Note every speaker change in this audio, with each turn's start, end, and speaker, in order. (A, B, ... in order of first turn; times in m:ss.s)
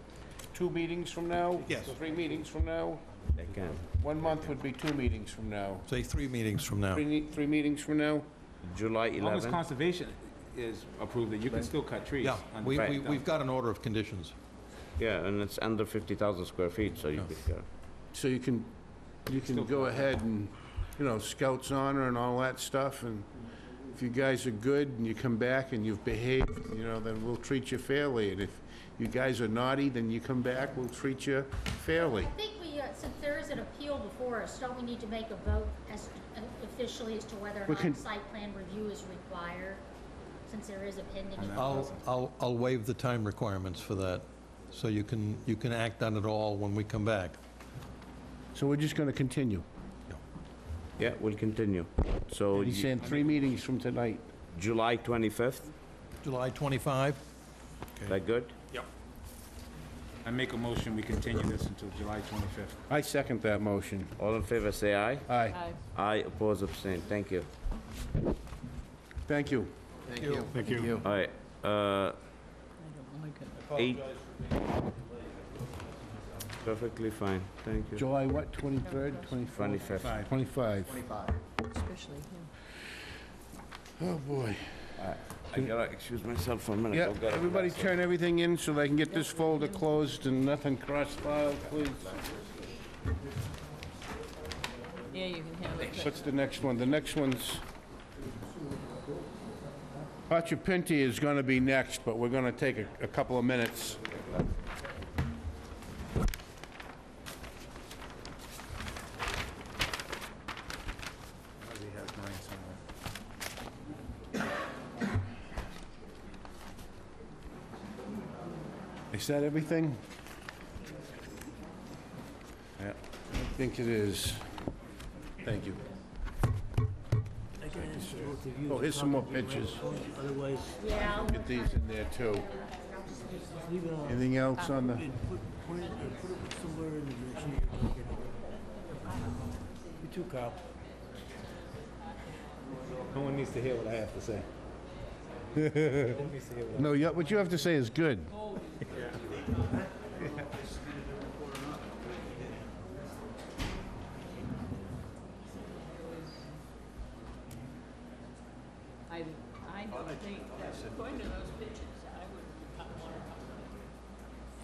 0:00.5-0:03.0 A
0:01.7-0:01.9 B
0:03.4-0:03.9 C
0:03.9-0:05.9 A
0:05.9-0:07.0 B
0:06.9-0:08.3 A
0:08.6-0:09.6 C
0:09.2-0:13.2 D
0:12.2-0:14.4 B
0:12.7-0:13.0 C
0:15.0-0:17.7 C
0:18.1-0:18.7 A
0:19.2-0:23.3 A
0:19.5-0:20.1 D
0:23.9-0:32.3 A
0:32.0-0:39.8 E
0:37.7-0:38.0 A
0:40.5-0:41.9 E
0:41.4-0:42.0 D
0:41.6-0:47.4 B
0:48.5-0:49.6 A
0:51.0-0:53.1 C
0:52.5-0:54.2 A
0:54.5-0:55.7 C
0:56.2-0:57.2 B
0:58.1-0:58.6 C
1:00.2-1:02.8 D
1:02.9-1:04.1 A
1:04.2-1:07.5 C
1:05.3-1:05.6 A
1:05.5-1:05.8 F
1:09.3-1:11.0 A
1:10.2-1:10.8 B
1:11.0-1:12.2 C
1:12.8-1:13.6 F
1:13.7-1:14.0 C
1:16.6-1:18.0 C
1:18.0-1:21.0 A
1:18.8-1:19.3 F
1:19.5-1:20.3 C
1:20.0-1:20.3 D
1:21.8-1:22.5 F
1:24.0-1:24.9 A
1:25.0-1:28.0 C
1:26.9-1:32.2 A
1:35.1-1:36.1 F
1:35.8-1:37.6 A
1:40.3-1:44.1 A
1:51.6-1:52.8 D
1:59.1-2:00.0 A
2:03.3-2:04.5 A
2:05.4-2:05.8 A
2:07.6-2:11.2 G
2:08.1-2:09.9 A
2:10.8-2:13.7 E
2:11.2-2:12.5 A
2:13.6-2:18.5 G
2:14.0-2:15.2 A
2:20.0-2:20.6 G
2:23.1-2:24.5 D
2:25.6-2:26.1 A
2:26.0-2:27.0 D
2:26.8-2:28.3 A
2:39.1-2:43.7 F